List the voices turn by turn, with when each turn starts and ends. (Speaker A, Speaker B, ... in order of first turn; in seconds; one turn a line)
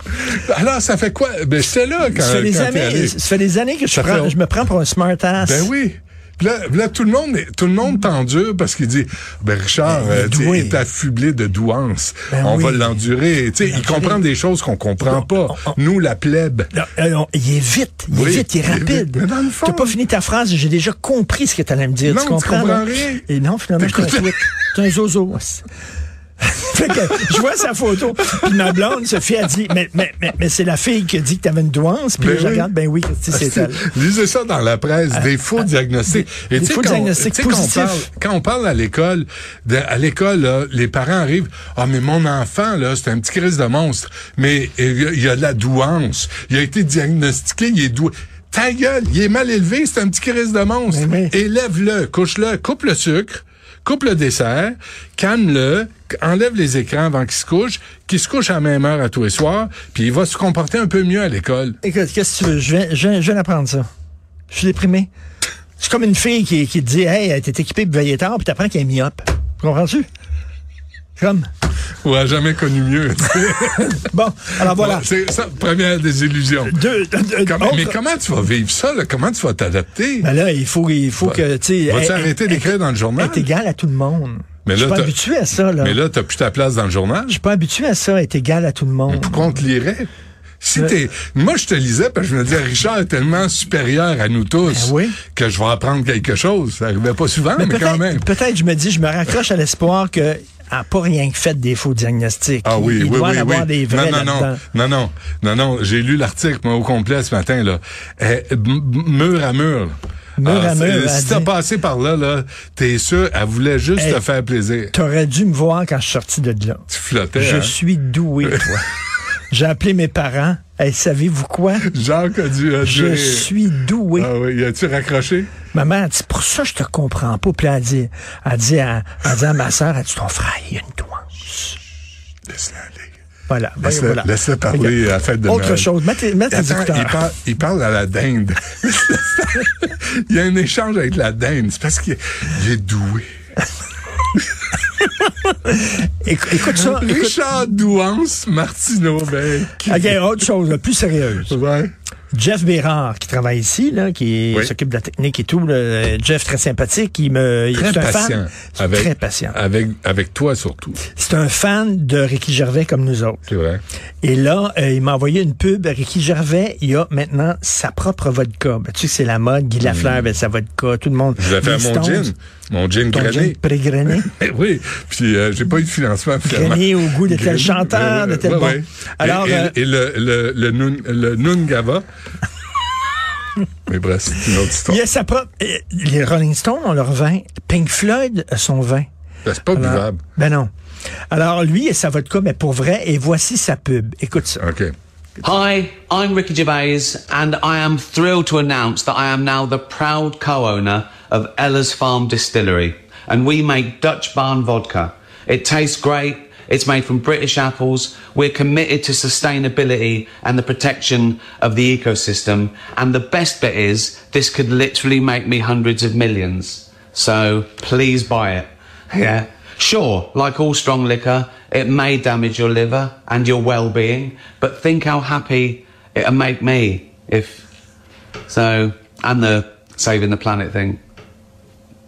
Speaker A: 0.2-3.2
Speaker B: 2.1-5.7
Speaker A: 3.9-4.3
Speaker A: 5.4-16.7
Speaker B: 9.8-10.8
Speaker B: 12.3-13.0
Speaker B: 13.6-14.2
Speaker B: 15.0-15.7
Speaker B: 16.7-25.6
Speaker A: 18.1-19.9
Speaker A: 22.1-23.2
Speaker A: 23.8-24.4
Speaker B: 26.4-33.8
Speaker A: 32.2-32.7
Speaker A: 33.3-61.8
Speaker B: 36.1-38.1
Speaker B: 50.9-51.3
Speaker B: 61.8-63.9
Speaker B: 64.5-65.1
Speaker B: 65.8-70.1
Speaker B: 71.2-71.5
Speaker A: 72.0-74.0
Speaker B: 74.0-75.1
Speaker A: 74.6-76.8
Speaker B: 76.6-78.0
Speaker A: 77.4-80.3
Speaker B: 80.2-86.0
Speaker A: 81.2-83.5
Speaker A: 84.6-85.2
Speaker A: 85.8-87.4
Speaker B: 87.3-89.5
Speaker A: 89.1-90.1
Speaker A: 90.6-98.2
Speaker B: 94.7-95.2
Speaker B: 97.5-104.6
Speaker A: 102.6-114.9
Speaker B: 110.4-111.5
Speaker B: 114.0-114.2
Speaker B: 114.9-118.9
Speaker A: 116.9-117.7
Speaker B: 119.5-121.9
Speaker A: 121.8-123.5
Speaker B: 122.8-124.3
Speaker A: 124.2-125.5
Speaker B: 125.7-131.8
Speaker A: 132.5-133.1
Speaker B: 133.5-137.2
Speaker A: 133.8-135.9
Speaker A: 136.5-143.2
Speaker B: 145.7-147.4
Speaker A: 146.6-150.2
Speaker B: 149.8-151.6
Speaker A: 151.5-151.9
Speaker B: 152.3-159.6
Speaker A: 157.7-161.0
Speaker B: 161.1-163.5
Speaker A: 163.5-163.8
Speaker B: 164.2-172.3
Speaker A: 169.8-170.3
Speaker A: 171.4-173.6
Speaker B: 173.1-174.3
Speaker A: 174.1-182.0
Speaker B: 176.4-179.7
Speaker A: 183.9-185.0
Speaker B: 184.8-189.1
Speaker A: 189.4-190.2
Speaker B: 189.7-190.7
Speaker B: 191.3-194.7
Speaker A: 194.6-194.9
Speaker C: 195.4-227.6
Speaker C: 228.5-231.0